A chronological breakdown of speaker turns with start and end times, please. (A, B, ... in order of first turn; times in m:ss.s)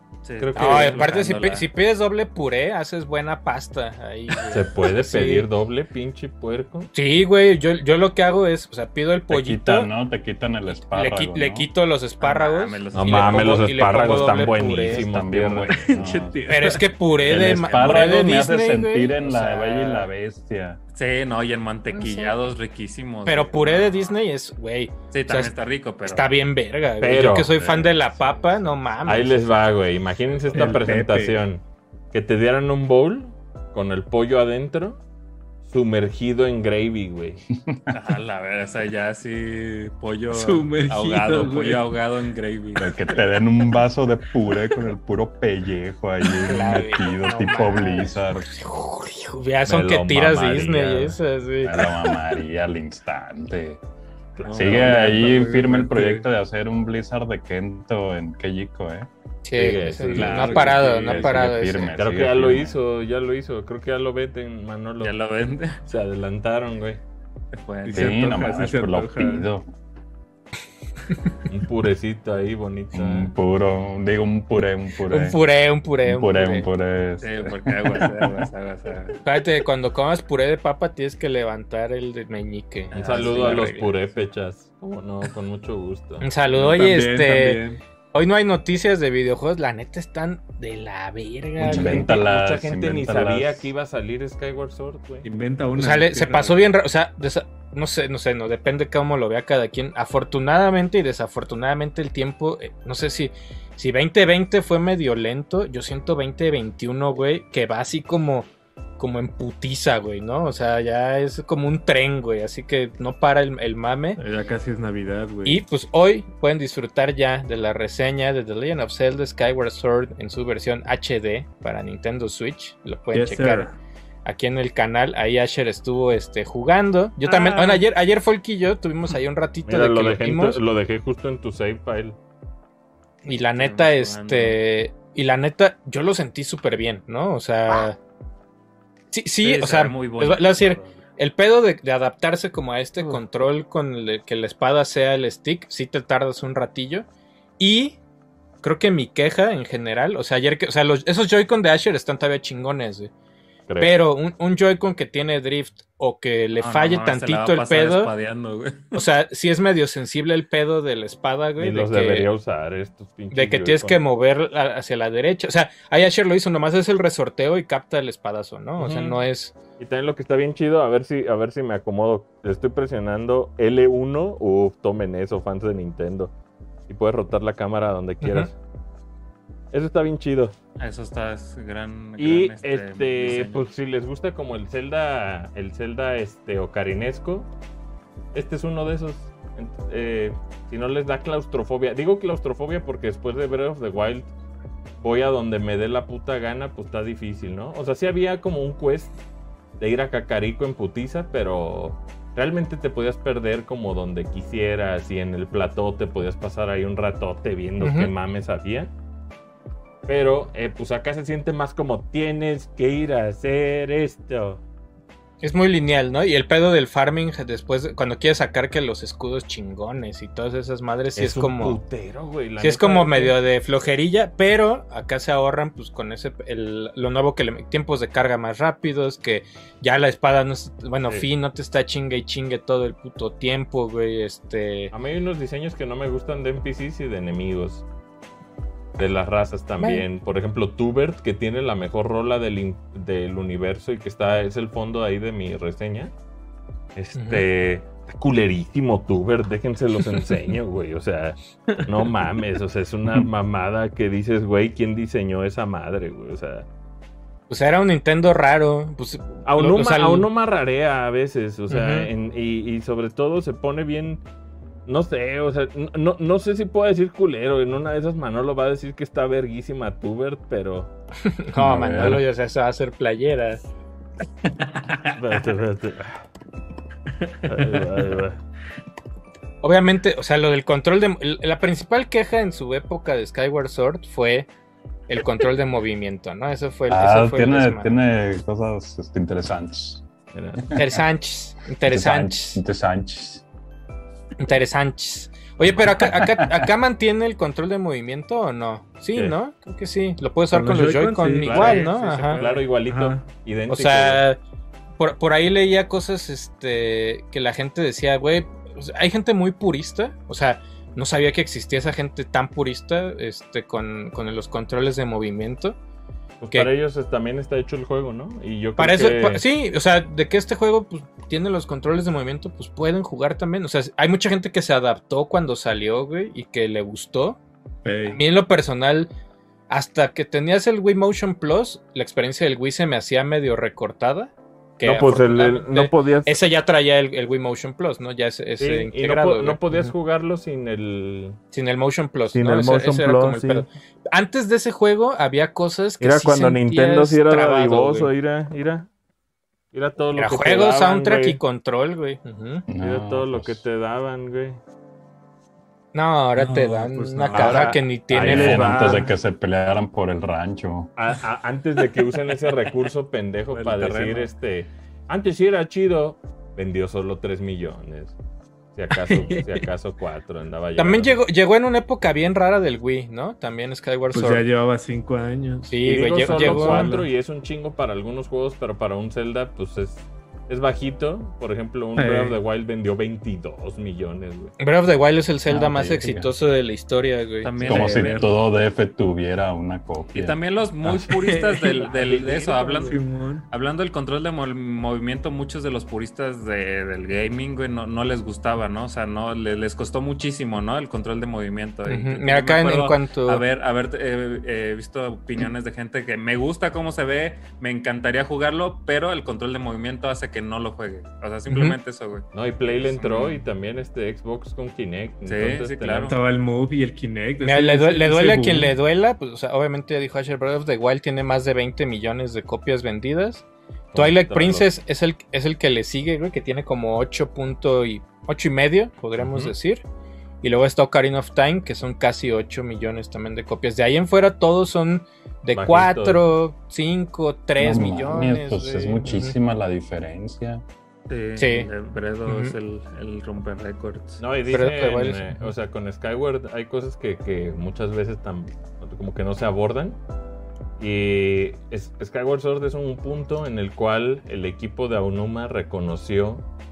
0:00.2-0:01.7 A
0:00.4-0:01.1 B
0:00.5-0:05.5 C
0:04.5-0:06.9 B
0:06.9-0:09.9 C
0:09.3-0:11.7 D
0:10.7-0:15.1 C
0:12.2-0:14.1 A
0:12.9-0:16.0 B
0:14.8-0:16.6 D
0:15.7-0:16.9 E
0:16.5-0:20.1 C
0:17.2-0:20.8 D
0:17.4-0:18.0 B
0:20.9-0:24.2 A
0:21.9-0:22.3 C
0:23.2-0:29.5 C
0:25.1-0:26.2 A
0:27.0-0:27.8 B
0:27.7-0:28.0 D
0:29.0-0:35.0 B
0:30.5-0:31.4 E
0:35.6-0:37.4 B
0:37.5-0:37.9 D
0:37.9-0:43.1 A
0:40.3-0:41.9 E
0:42.8-0:48.5 D
0:46.4-0:52.2 C
0:49.6-0:51.2 B
0:51.6-0:53.8 D
0:54.4-0:55.2 B
0:54.5-0:54.8 A
0:54.5-0:59.1 D
0:54.6-0:56.2 E
0:59.4-1:01.9 C
0:59.5-1:01.4 B
1:00.1-1:02.8 D
1:00.2-1:00.8 E
1:01.9-1:05.2 B
1:05.0-1:05.8 A
1:05.9-1:07.0 B
1:07.5-1:08.3 A
1:07.8-1:09.5 E
1:07.9-1:09.7 D
1:11.5-1:13.3 B
1:12.9-1:15.4 D
1:15.1-1:16.7 C
1:16.0-1:18.3 D
1:17.2-1:19.2 A
1:19.2-1:24.1 C
1:22.9-1:23.6 A
1:22.9-1:26.3 B
1:26.2-1:27.6 C
1:26.5-1:27.8 E
1:28.1-1:32.2 C
1:31.6-1:33.7 D
1:31.6-1:35.3 B
1:35.2-1:36.6 E
1:35.8-1:54.2 C
1:54.2-1:55.6 E
1:55.4-2:03.7 C
2:03.1-2:03.8 E
2:04.2-2:10.6 C
2:07.2-2:07.8 B
2:09.6-2:12.2 B
2:13.2-2:18.0 C
2:13.5-2:14.6 A
2:19.1-2:27.1 C
2:19.4-2:21.0 A
2:27.6-2:28.0 C
2:28.6-2:33.1 C
2:33.7-2:33.9 B
2:33.8-2:38.1 C
2:36.5-2:39.0 A
2:38.9-2:42.3 C
2:41.6-2:44.0 B
2:43.3-2:49.5 C
2:48.8-2:49.2 B
2:49.8-2:56.3 B
2:56.9-2:58.5 B
2:58.2-2:58.5 C
2:59.7-3:00.6 B
3:00.8-3:03.6 A
3:02.2-3:07.5 B
3:08.3-3:14.3 B
3:15.0-3:19.2 B
3:19.8-3:28.9 B
3:27.8-3:28.1 C
3:30.1-3:34.6 B
3:35.4-3:41.8 C
3:41.2-3:43.4 B
3:42.6-3:54.9 C
3:54.9-3:57.8 B
3:59.0-4:06.1 B
3:59.8-4:00.0 C
4:06.9-4:16.7 B
4:07.2-4:07.4 C
4:17.5-4:20.3 C
4:19.4-4:24.2 B
4:21.7-4:22.1 C
4:24.8-4:30.9 B
4:31.2-4:33.7 C
4:31.6-4:32.2 D
4:35.1-4:36.2 B
4:37.3-4:37.9 E
4:37.4-4:38.4 B
4:39.6-4:44.5 C
4:45.1-4:47.9 C
4:46.9-4:50.0 D
4:50.3-4:50.7 B
4:50.7-4:51.0 D
4:50.7-4:52.6 C
4:51.8-4:53.4 D
4:54.4-5:02.4 C
4:56.0-4:56.7 D
5:00.5-5:01.9 E
5:01.4-5:04.2 B
5:01.6-5:02.6 A
5:02.8-5:03.2 E
5:03.7-5:04.4 C
5:05.0-5:15.8 C
5:16.4-5:19.4 B
5:18.8-5:27.4 C
5:27.8-5:28.2 E
5:28.1-5:29.1 C
5:29.7-5:39.8 C
5:34.8-5:36.4 B
5:38.6-5:41.4 B
5:41.5-5:48.1 C
5:42.3-5:43.6 B
5:46.0-5:48.9 B
5:49.7-5:51.4 B
5:50.1-5:52.7 C
5:52.7-5:53.6 D
5:52.8-5:54.6 B
5:55.9-5:59.0 C
5:56.4-5:57.8 E
5:57.3-5:59.1 B
5:58.2-6:00.9 D
6:01.0-6:08.2 B
6:03.5-6:04.3 E
6:08.7-6:11.2 B
6:08.9-6:09.6 E
6:10.8-6:14.5 C
6:14.1-6:17.1 E
6:15.6-6:16.9 C
6:15.8-6:24.5 B
6:22.0-6:22.4 E
6:24.6-6:27.8 C
6:25.5-6:26.3 D
6:27.4-6:28.3 A
6:27.6-6:28.2 E
6:27.6-6:30.4 D
6:30.1-6:53.4 A
6:31.0-6:33.5 E
6:31.8-6:33.0 B
6:41.9-6:43.4 C
6:51.5-6:51.8 C
6:52.3-6:56.1 B
6:55.2-6:56.2 A
6:56.1-6:58.7 E
6:57.4-7:09.8 C
7:03.9-7:04.7 B
7:09.2-7:09.5 B
7:10.4-7:19.4 C
7:15.5-7:16.2 B
7:17.6-7:20.6 D
7:21.1-7:24.2 A
7:21.4-7:21.7 C
7:22.2-7:22.5 C
7:24.2-7:30.0 B
7:24.5-7:25.5 C
7:30.8-7:36.4 B